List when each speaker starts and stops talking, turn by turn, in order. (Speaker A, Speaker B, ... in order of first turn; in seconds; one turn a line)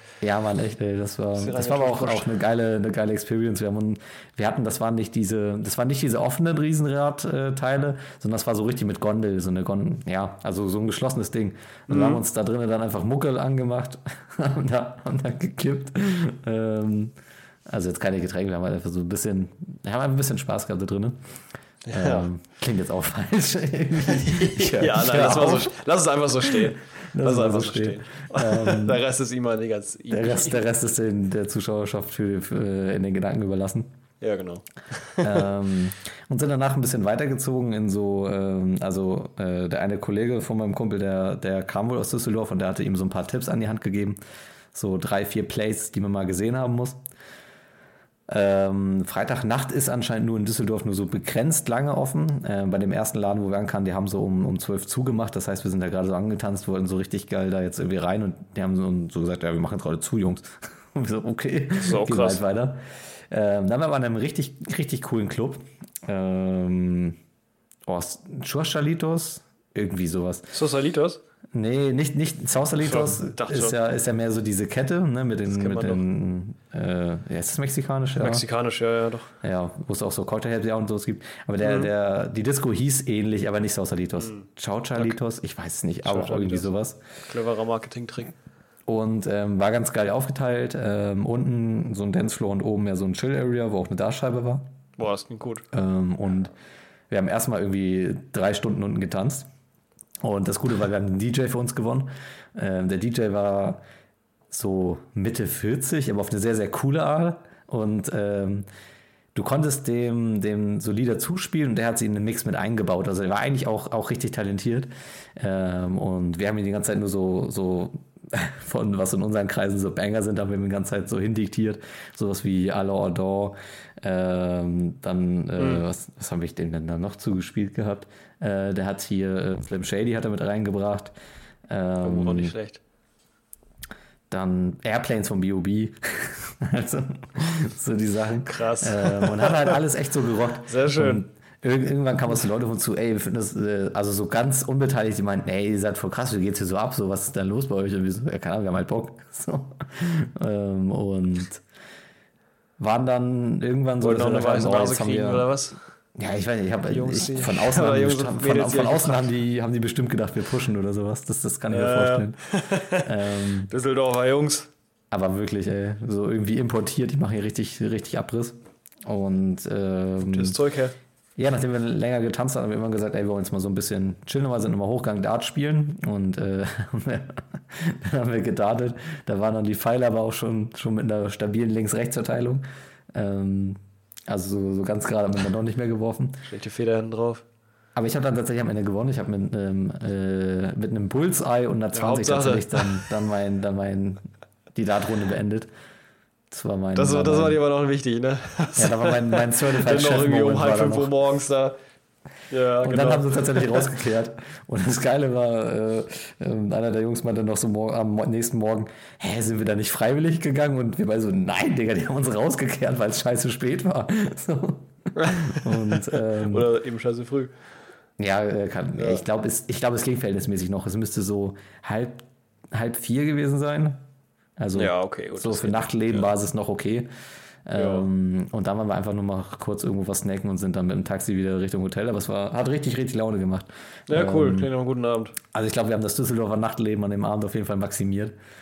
Speaker A: 0.2-17.1
Speaker B: 1.3-2.3
Speaker B: 11.9-12.2
Speaker A: 17.7-21.2
Speaker B: 21.8-22.3
Speaker A: 21.9-25.7
Speaker B: 24.1-30.6
Speaker A: 26.4-29.0
Speaker A: 30.1-33.9
Speaker B: 34.2-35.5
Speaker A: 35.2-44.2
Speaker A: 44.7-47.0
Speaker A: 48.3-67.2
Speaker B: 61.8-62.4
Speaker A: 67.8-70.5
Speaker B: 70.5-71.2
Speaker A: 71.5-78.4
Speaker B: 72.8-73.7
Speaker B: 75.5-76.0
Speaker B: 78.2-79.3
Speaker A: 79.4-87.0
Speaker B: 81.6-81.9
Speaker B: 84.2-85.2
Speaker B: 86.0-86.7
Speaker B: 87.2-88.3
Speaker A: 88.9-94.7
Speaker B: 95.0-95.6
Speaker A: 95.7-96.5
Speaker A: 97.1-99.5
Speaker A: 100.2-103.8
Speaker A: 104.5-108.7
Speaker A: 109.3-131.1
Speaker B: 125.6-125.8
Speaker A: 131.7-132.5
Speaker B: 132.0-132.8
Speaker A: 134.3-151.6
Speaker B: 138.4-139.8
Speaker B: 140.7-141.2
Speaker A: 152.8-155.5
Speaker B: 154.0-155.8
Speaker A: 156.2-162.4
Speaker B: 156.9-159.3
Speaker B: 161.7-164.7
Speaker A: 163.0-163.7
Speaker A: 165.1-170.6
Speaker B: 170.2-170.9
Speaker A: 171.4-186.4
Speaker B: 186.4-187.4
Speaker A: 187.9-195.7
Speaker B: 191.9-193.1
Speaker A: 196.5-197.6
Speaker B: 196.9-201.8
Speaker A: 198.8-201.1
Speaker B: 202.5-203.9
Speaker A: 202.8-216.7
Speaker B: 215.2-217.5
Speaker A: 218.2-224.0
Speaker B: 218.9-219.2
Speaker A: 224.6-227.1
Speaker B: 224.7-226.3
Speaker A: 227.7-234.7
Speaker B: 227.7-228.1
Speaker B: 234.1-235.3
Speaker A: 235.5-238.3